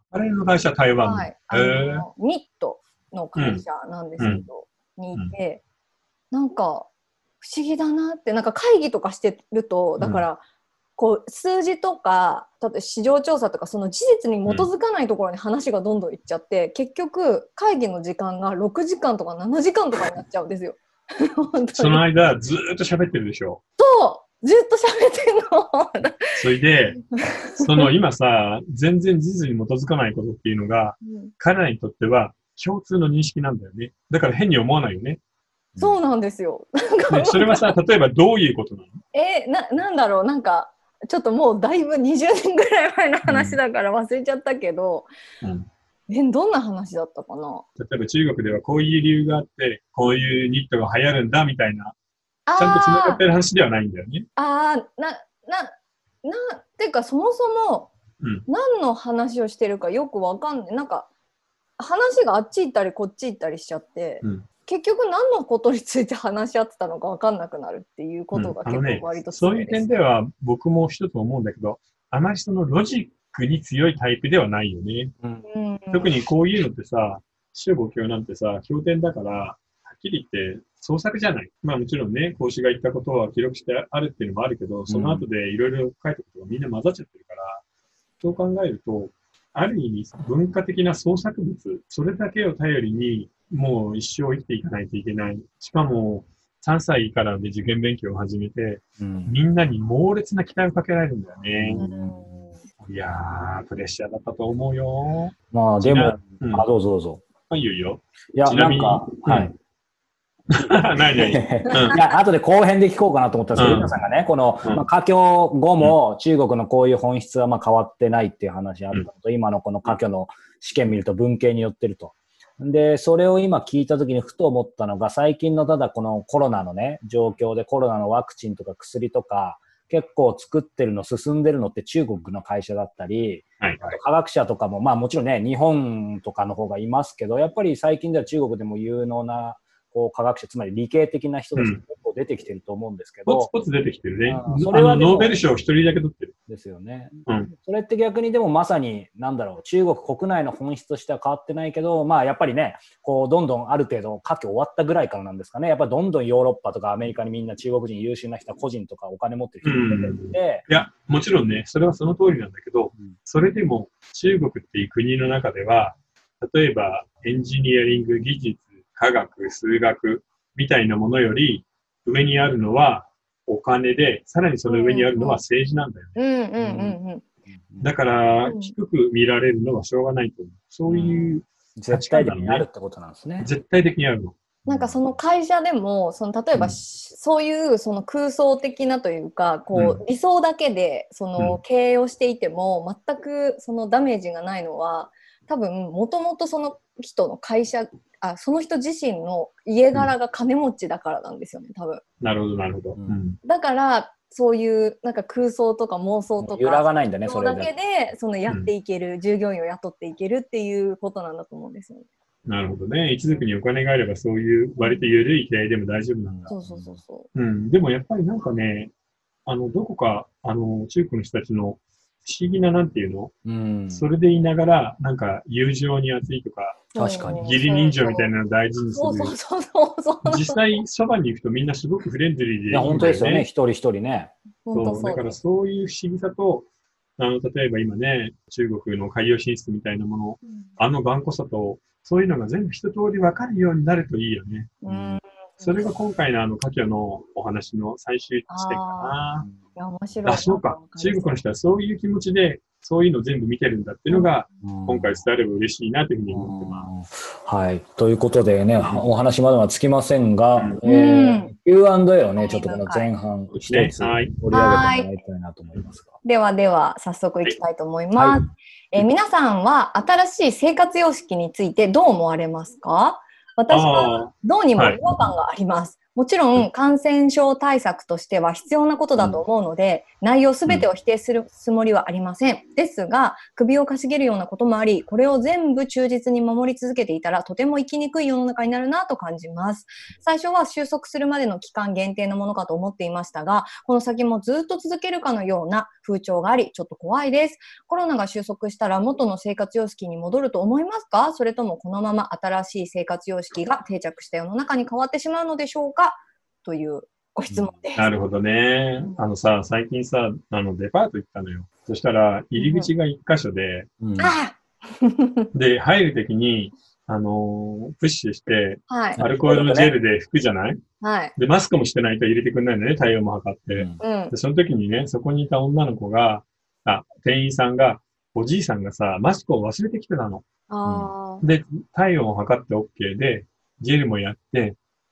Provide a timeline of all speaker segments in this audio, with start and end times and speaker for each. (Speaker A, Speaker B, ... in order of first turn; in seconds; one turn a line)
Speaker A: 0.1-2.1
Speaker B: 1.0-5.6
Speaker A: 3.4-3.6
Speaker A: 4.2-4.5
Speaker B: 6.3-6.9
Speaker B: 7.4-10.4
Speaker A: 10.0-10.2
Speaker B: 11.0-22.0
Speaker A: 21.8-23.6
Speaker B: 23.8-26.4
Speaker A: 26.4-27.0
Speaker B: 27.1-27.9
Speaker A: 27.6-35.2
Speaker B: 31.0-31.3
Speaker B: 35.8-37.7
Speaker A: 37.1-39.0
Speaker B: 39.1-45.1
Speaker A: 43.3-43.6
Speaker A: 45.4-45.7
Speaker B: 46.1-47.6
Speaker A: 47.8-51.9
Speaker B: 52.5-53.2
Speaker A: 52.6-54.3
Speaker B: 54.4-57.9
Speaker A: 58.2-58.5
Speaker B: 58.5-61.1
Speaker B: 61.8-69.9
Speaker A: 68.3-75.1
Speaker B: 75.5-76.1
Speaker A: 75.9-87.6
Speaker C: 84.9-85.3
Speaker A: 88.2-101.8
Speaker C: 99.0-99.4
Speaker C: 101.6-102.5
Speaker B: 101.8-102.6
Speaker A: 102.9-106.7
Speaker C: 105.5-107.2
Speaker A: 107.5-109.5
Speaker C: 108.3-109.5
Speaker A: 110.5-112.0
Speaker C: 111.1-143.5
Speaker A: 113.6-113.9
Speaker A: 133.6-134.0
Speaker A: 141.6-141.8
Speaker A: 143.3-146.3
Speaker C: 144.3-145.4
Speaker C: 146.5-160.7
Speaker A: 147.3-147.5
Speaker A: 159.6-176.2
Speaker B: 174.7-175.4
Speaker B: 176.2-177.2
Speaker C: 176.6-177.9
Speaker A: 177.8-182.7
Speaker B: 178.4-178.7
Speaker C: 180.9-183.5
Speaker A: 183.4-184.4
Speaker C: 184.7-185.0
Speaker B: 184.7-202.0
Speaker A: 189.7-190.0
Speaker A: 202.2-203.4
Speaker C: 203.0-203.2
Speaker B: 203.4-212.1
Speaker C: 206.4-207.7
Speaker A: 212.5-216.5
Speaker B: 214.8-215.1
Speaker C: 216.2-217.0
Speaker B: 216.5-217.3
Speaker A: 217.3-218.9
Speaker A: 219.5-223.3
Speaker C: 223.5-224.1
Speaker A: 223.9-229.3
Speaker B: 226.9-228.3
Speaker C: 227.0-227.5
Speaker B: 228.9-230.6
Speaker A: 230.2-233.5
Speaker C: 232.7-234.3
Speaker B: 234.7-235.4
Speaker A: 234.7-236.7
Speaker A: 237.2-244.8
Speaker B: 244.8-245.9
Speaker C: 244.9-245.2
Speaker A: 245.6-249.5
Speaker B: 248.5-249.2
Speaker B: 249.8-251.4
Speaker A: 250.2-256.9
Speaker C: 254.6-255.2
Speaker C: 256.3-266.1
Speaker B: 260.8-261.5
Speaker B: 262.4-263.1
Speaker A: 263.6-264.4
Speaker B: 264.5-265.1
Speaker B: 266.2-308.1
Speaker C: 268.1-268.4
Speaker A: 273.7-275.0
Speaker C: 307.5-307.8
Speaker A: 308.0-313.9
Speaker B: 312.6-312.9
Speaker C: 314.0-314.3
Speaker B: 314.2-315.5
Speaker A: 315.5-320.8
Speaker B: 318.9-319.2
Speaker C: 319.2-319.9
Speaker B: 321.0-321.3
Speaker A: 321.4-330.4
Speaker C: 323.7-324.0
Speaker B: 324.0-324.3
Speaker B: 330.7-331.4
Speaker C: 330.9-331.1
Speaker A: 331.4-334.8